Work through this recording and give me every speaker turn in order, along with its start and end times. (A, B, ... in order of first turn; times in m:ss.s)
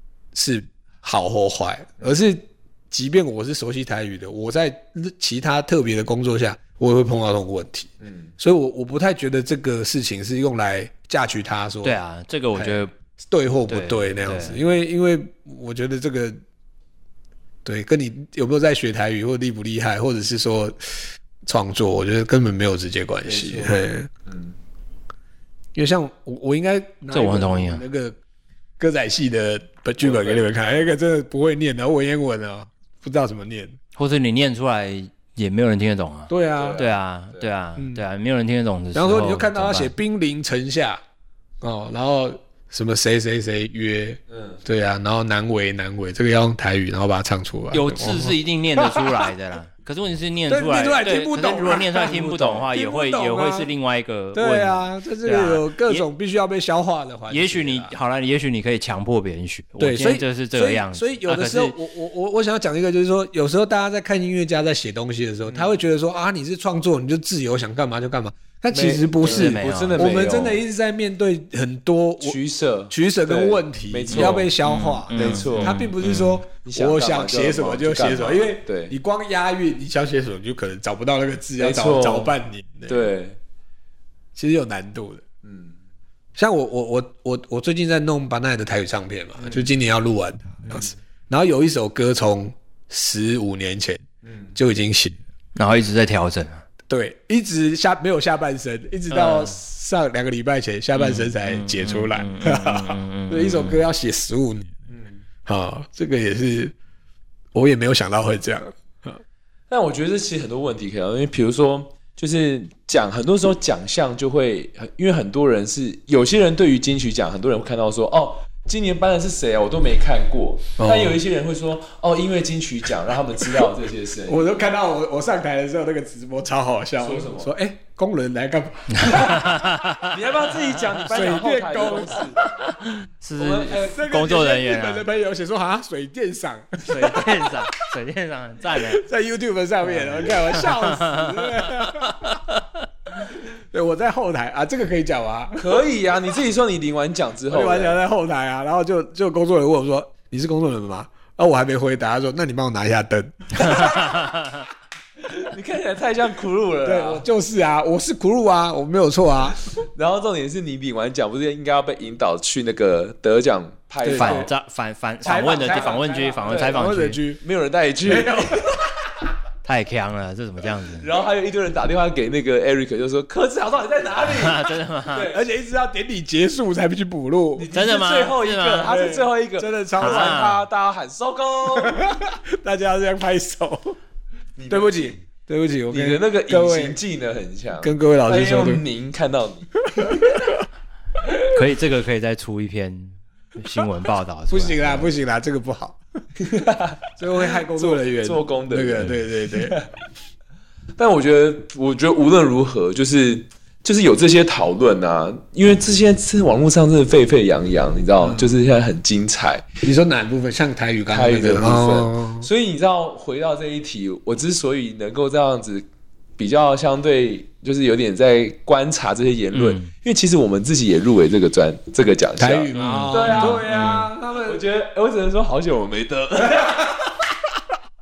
0:00.3-0:12.0 A
0:08.0-0:08.3 B
0:11.8-0:12.9 C
0:12.5-0:16.4 A
0:13.7-0:14.6 C
0:17.6-0:24.1 A
0:23.2-0:24.5 B
0:25.7-0:28.2 A
0:27.1-0:27.8 C
0:28.8-0:33.8 A
0:30.0-0:30.7 B
0:33.9-0:39.9 C
0:36.3-0:36.8 A
0:36.6-0:37.5 B
0:37.8-0:38.0 A
0:38.9-0:41.0 A
0:41.6-0:49.3 A
0:44.3-0:44.6 B
0:47.7-0:56.0 C
0:50.5-0:53.7 A
0:52.1-0:52.7 B
0:54.3-0:57.9 A
0:57.3-1:01.8 C
0:59.8-1:12.4 A
1:05.5-1:05.8 B
1:08.7-1:10.6 B
1:09.2-1:10.1 C
1:12.2-1:14.6 B
1:12.9-1:23.1 A
1:14.1-1:16.4 C
1:15.1-1:15.8 B
1:16.6-1:18.9 B
1:21.6-1:22.3 B
1:22.9-1:23.4 B
1:24.4-1:25.2 A
1:25.4-1:25.8 B
1:26.4-1:35.2 A
1:29.4-1:29.7 B
1:34.2-1:34.6 B
1:35.6-1:36.6 C
1:36.9-1:44.7 A
1:39.1-1:39.6 C
1:40.9-1:43.8 C
1:44.9-1:45.2 B
1:45.4-1:46.7 A
1:47.5-1:49.2 A
1:49.7-2:04.6 B
2:00.8-2:01.2 A
2:04.2-2:09.6 A
2:07.0-2:07.5 B
2:09.0-2:11.3 C
2:09.1-2:09.5 B
2:10.0-2:12.5 B
2:11.1-2:12.4 A
2:12.4-2:15.0 C
2:13.4-2:14.0 B
2:13.8-2:17.6 A
2:16.8-2:19.0 C
2:18.7-2:22.4 A
2:19.8-2:22.8 C
2:23.3-2:25.9 A
2:25.6-2:28.0 B
2:27.5-2:34.1 A
2:33.6-2:34.6 C
2:35.3-2:37.2 B
2:36.8-2:39.7 A
2:39.8-2:44.5 B
2:44.0-2:44.5 A
2:44.1-2:47.2 C
2:45.2-2:47.4 A
2:45.3-2:46.8 B
2:47.4-2:48.8 B
2:48.0-2:48.9 A
2:49.6-2:51.1 C
2:51.0-2:55.4 B
2:54.2-2:55.3 C
2:55.3-2:57.7 A
2:57.6-3:02.0 B
2:57.7-2:58.9 C
2:58.8-3:00.4 A
3:00.0-3:00.6 C
3:01.7-3:04.0 A
3:04.6-3:05.2 B
3:04.7-3:07.0 A
3:05.9-3:10.3 B
3:07.8-3:08.8 A
3:09.9-3:10.6 A
3:11.5-3:15.1 C
3:14.5-3:16.0 A
3:16.4-3:19.9 B
3:17.2-3:19.8 A
3:21.0-3:29.7 B
3:28.2-3:28.5 A
3:29.8-3:32.5 A
3:31.1-3:35.9 B
3:36.4-3:46.9 B
3:39.5-3:39.9 C
3:42.4-3:44.6 A
3:42.7-3:44.1 C